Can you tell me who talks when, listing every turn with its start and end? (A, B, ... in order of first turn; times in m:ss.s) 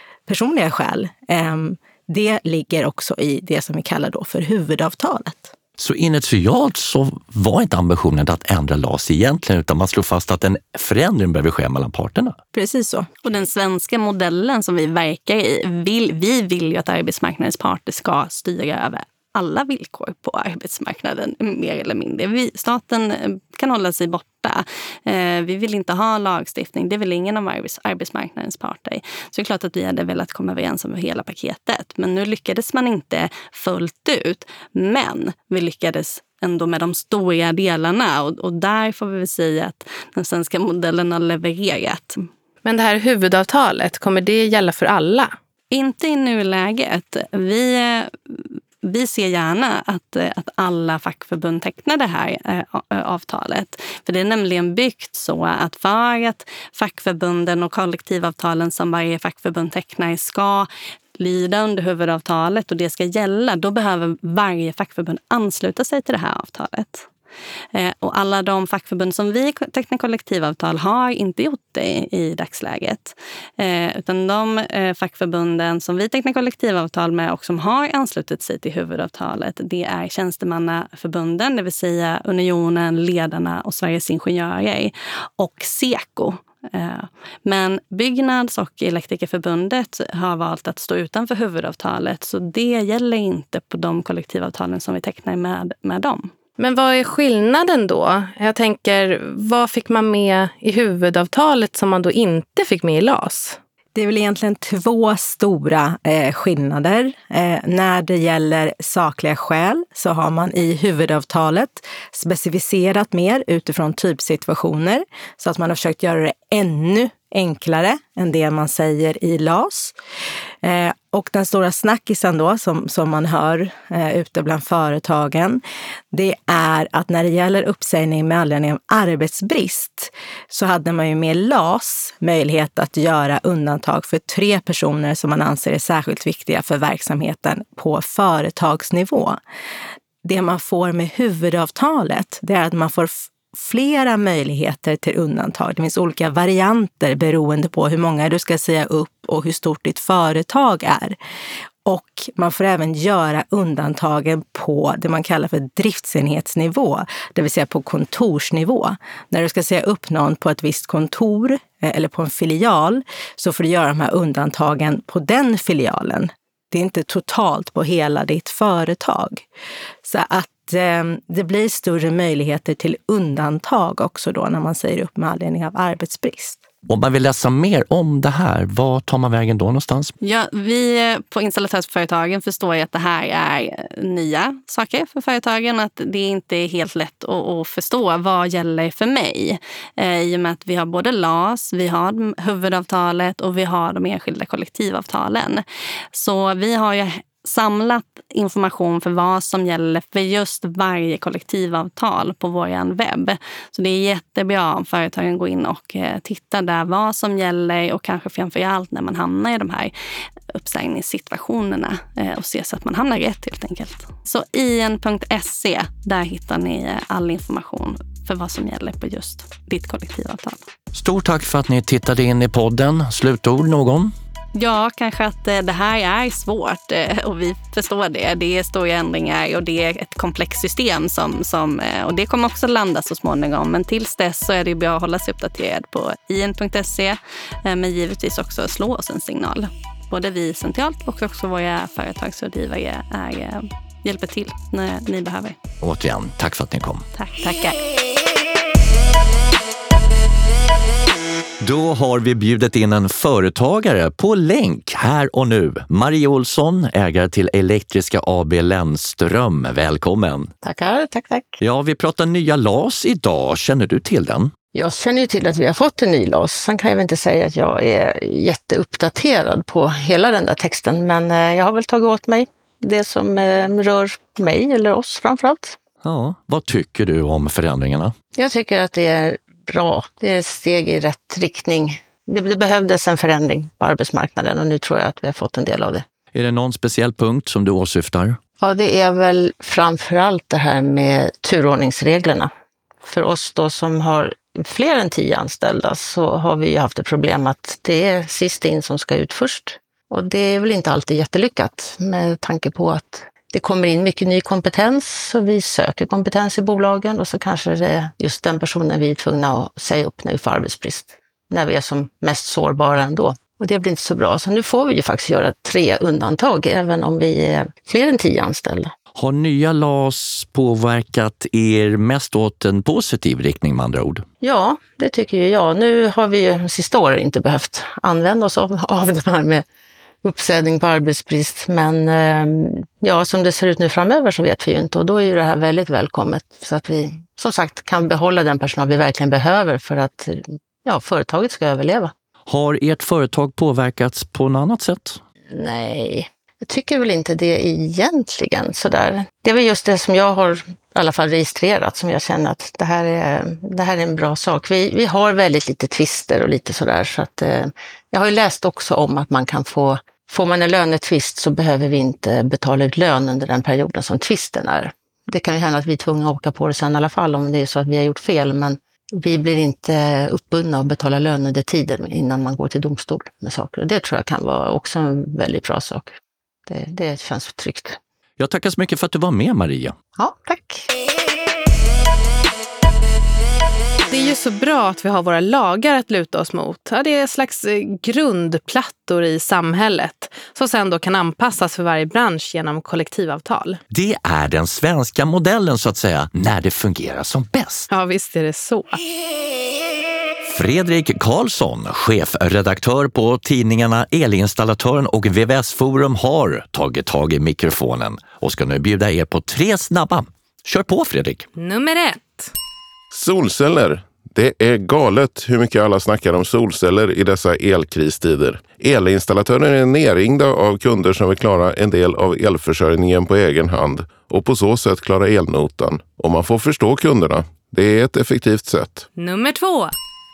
0:00.3-0:05.5 A
0:05.8-0:12.4 B
0:12.5-0:13.1 A
0:13.2-0:42.3 C
0:42.6-0:45.3 D
0:45.7-1:07.1 C
1:07.7-1:36.3 C
1:36.6-1:43.6 D
1:43.9-1:59.9 A
2:00.6-2:19.4 A
2:20.2-2:31.2 A
2:31.8-2:49.4 A
2:50.0-2:56.6 A
2:56.9-3:00.1 B
3:00.2-3:29.9 C
3:30.5-3:40.6 C
3:40.9-3:44.1 B
3:44.5-4:05.6 C
4:05.8-4:07.0 B
4:07.2-4:07.5 C
4:07.4-4:07.7 A
4:11.6-4:20.5 B
4:20.6-4:21.6 E
4:21.6-4:24.5 B
4:24.7-4:35.8 E
4:36.0-4:38.1 B
4:38.3-4:46.0 E
4:46.3-4:48.4 B
4:48.6-4:52.5 E
4:53.0-5:18.9 E
5:19.1-5:24.2 B
5:24.4-5:29.6 E
5:30.2-5:42.1 E
5:42.5-5:45.2 B
5:45.5-6:16.1 E
6:16.7-6:18.0 E
6:18.4-6:19.9 B
6:20.2-6:20.9 E
6:24.1-6:33.8 D
6:33.9-6:37.9 B
6:37.9-6:39.0 D
6:40.5-6:51.4 B
6:51.6-6:52.5 D
6:53.1-7:09.1 F
7:09.2-7:09.9 D